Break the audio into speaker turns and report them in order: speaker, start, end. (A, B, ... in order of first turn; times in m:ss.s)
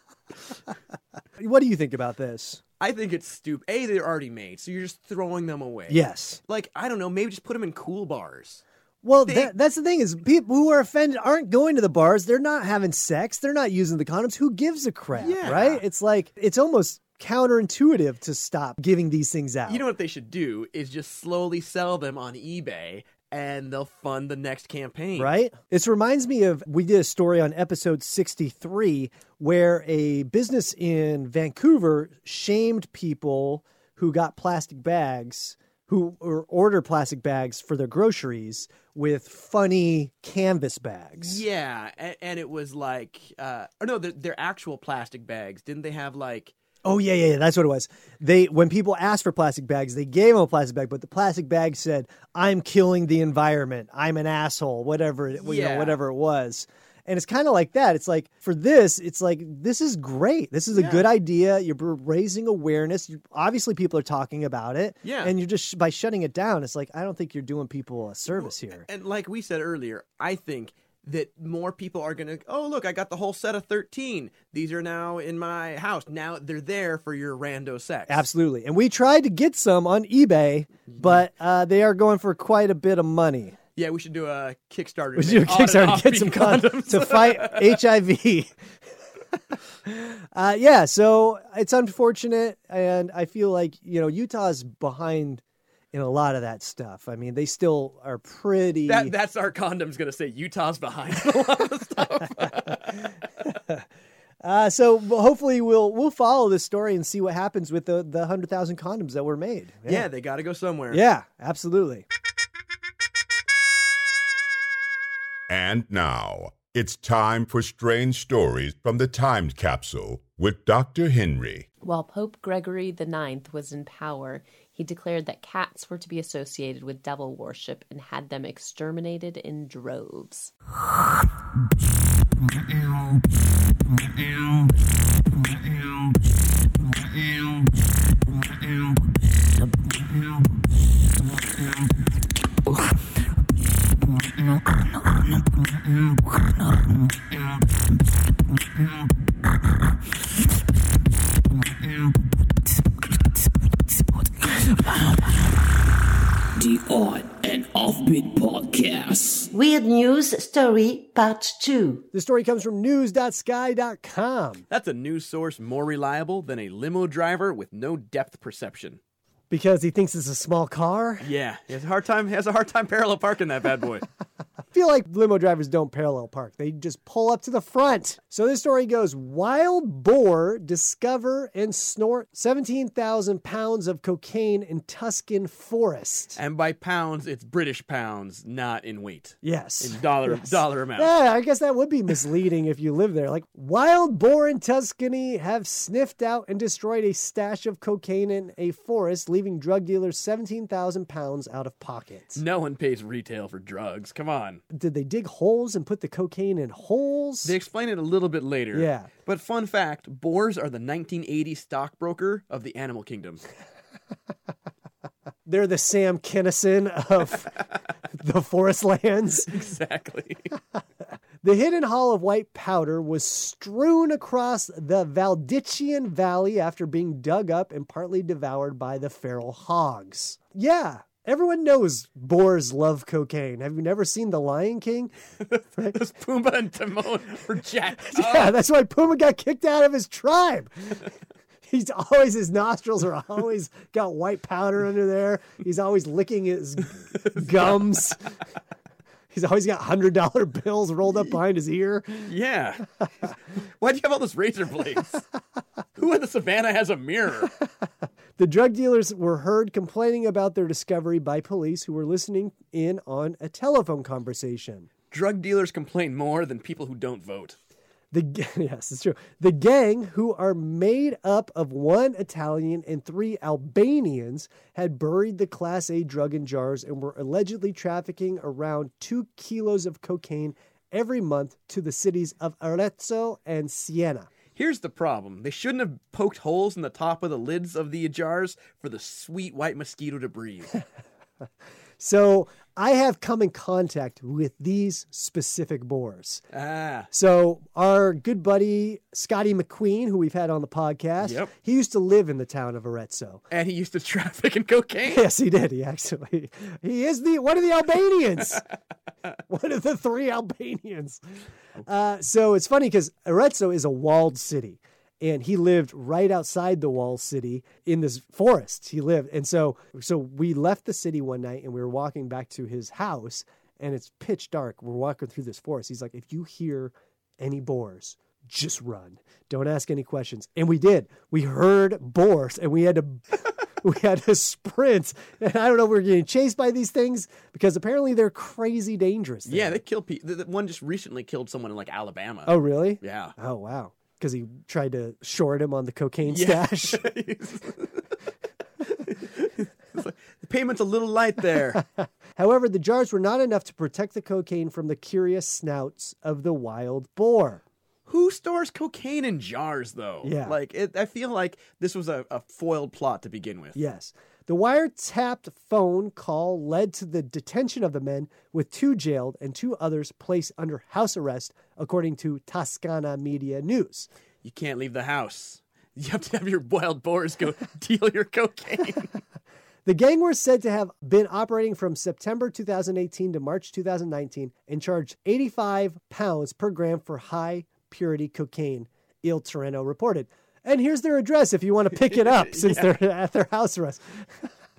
0:01.4-0:02.6 A
0:02.8-0:08.6 B
0:05.9-0:06.4 A
0:09.0-0:19.8 A
0:09.2-0:09.5 B
0:15.1-0:15.8 B
0:19.7-0:25.3 B
0:25.2-0:41.4 A
0:41.2-0:46.5 B
0:46.8-1:08.9 A
0:55.4-0:56.0 B
1:00.7-1:01.1 B
1:05.0-1:05.3 B
1:08.3-1:18.2 B
1:18.1-1:23.6 A
1:23.8-1:27.8 B
1:25.2-1:28.5 A
1:29.8-1:39.1 A
1:38.9-1:43.0 B
1:43.4-1:43.8 A
1:44.4-1:50.1 A
1:49.9-1:51.0 B
1:50.9-1:52.0 A
1:55.5-2:01.6 C
2:01.8-2:10.5 D
2:34.5-2:35.3 E
2:36.6-2:39.5 E
2:39.5-2:42.0 F
2:42.1-2:44.6 A
2:44.7-2:49.0 B
2:49.5-2:51.3 A
2:51.2-2:54.0 B
2:54.7-3:06.4 A
3:06.4-3:11.1 B
3:09.4-3:22.4 A
3:22.3-3:24.6 B
3:24.7-3:27.5 A
3:27.4-3:33.4 B
3:28.7-3:29.1 A
3:35.4-3:37.6 A
3:38.1-3:39.5 A
3:39.5-3:40.5 B
3:41.4-3:55.1 A
3:55.4-3:58.5 B
3:58.0-4:01.0 A
4:01.6-4:08.2 A
4:07.1-4:07.8 B
4:09.3-4:12.3 A
4:12.2-4:13.3 B
4:13.8-4:15.2 B
4:16.0-4:17.5 B
4:18.4-4:24.9 A
4:25.1-4:27.6 B
4:28.1-4:44.3 A
4:44.5-4:50.7 B
4:52.0-4:56.4 A
4:56.5-4:57.1 B
4:57.1-5:03.4 A
5:01.2-5:01.5 B
5:03.5-5:05.2 B
5:05.1-5:08.6 A
5:09.5-5:11.2 A
5:11.8-5:39.8 A
5:39.4-5:43.3 B
5:42.4-5:47.1 A
5:46.3-5:48.1 B
5:48.8-5:51.8 B
5:51.7-5:57.6 A
5:58.1-6:03.8 B
6:00.2-6:00.5 A
6:03.7-6:14.1 A
6:14.4-6:19.2 B
6:19.8-6:34.5 A
6:32.0-6:32.9 B